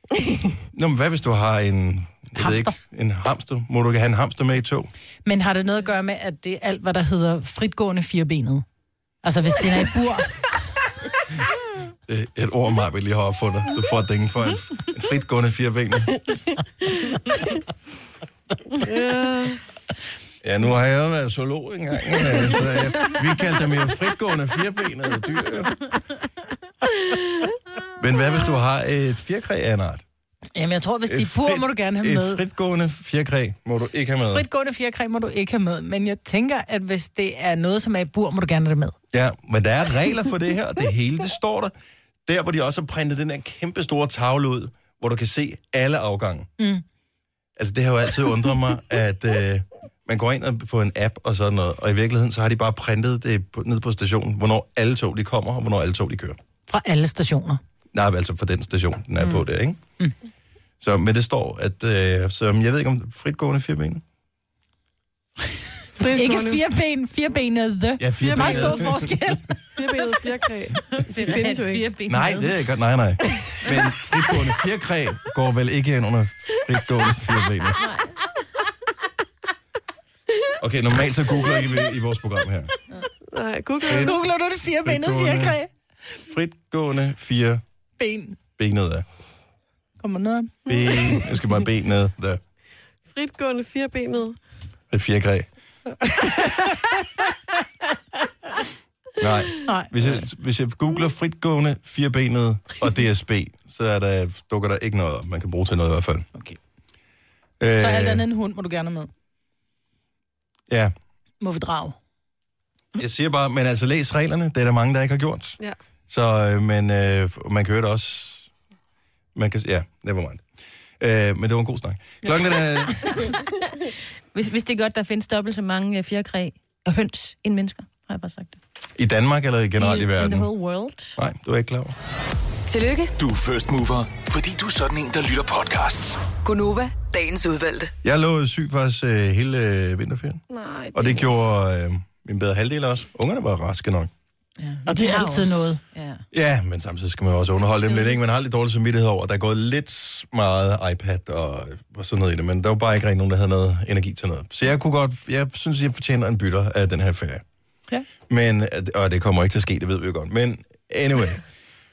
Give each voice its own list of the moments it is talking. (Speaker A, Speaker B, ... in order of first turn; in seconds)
Speaker A: 0.7-4.9, 12.1-16.2, 20.4-25.8, 28.0-30.0, 31.1-34.4, 39.1-41.7, 42.2-46.5, 47.6-56.4, 57.9-59.8, 60.8-64.0, 68.0-69.1, 72.1-77.8, 80.6-82.7, 83.9-84.1, 84.8-85.6, 86.3-87.6, 88.6-89.0, 90.7-92.4, 94.9-95.5, 99.2-106.3, 107.6-108.2, 110.7-110.9, 113.0-118.5, 119.3-120.4, 121.0-123.2, 129.0-130.5, 131.2-131.9, 138.0-144.1, 146.3-157.4, 158.3-161.4
Speaker B: 2.4-2.7, 5.2-8.6, 9.2-10.5, 30.5-32.4, 34.3-38.9, 56.7-57.6, 66.1-69.6, 83.8-85.7, 88.0-88.4, 90.0-91.2, 96.1-96.5, 99.6-100.2, 107.8-109.1, 111.4-112.0, 144.8-145.8
Speaker C: 18.8-19.6, 66.0-66.6, 68.2-68.9, 69.8-71.9, 83.3-84.1, 93.1-94.4, 140.5-141.5
Speaker D: 71.0-72.6, 77.8-78.3, 124.3-128.6, 129.8-131.2, 144.6-146.2
Speaker E: 132.7-133.1, 136.4-137.9
Speaker F: 133.2-136.2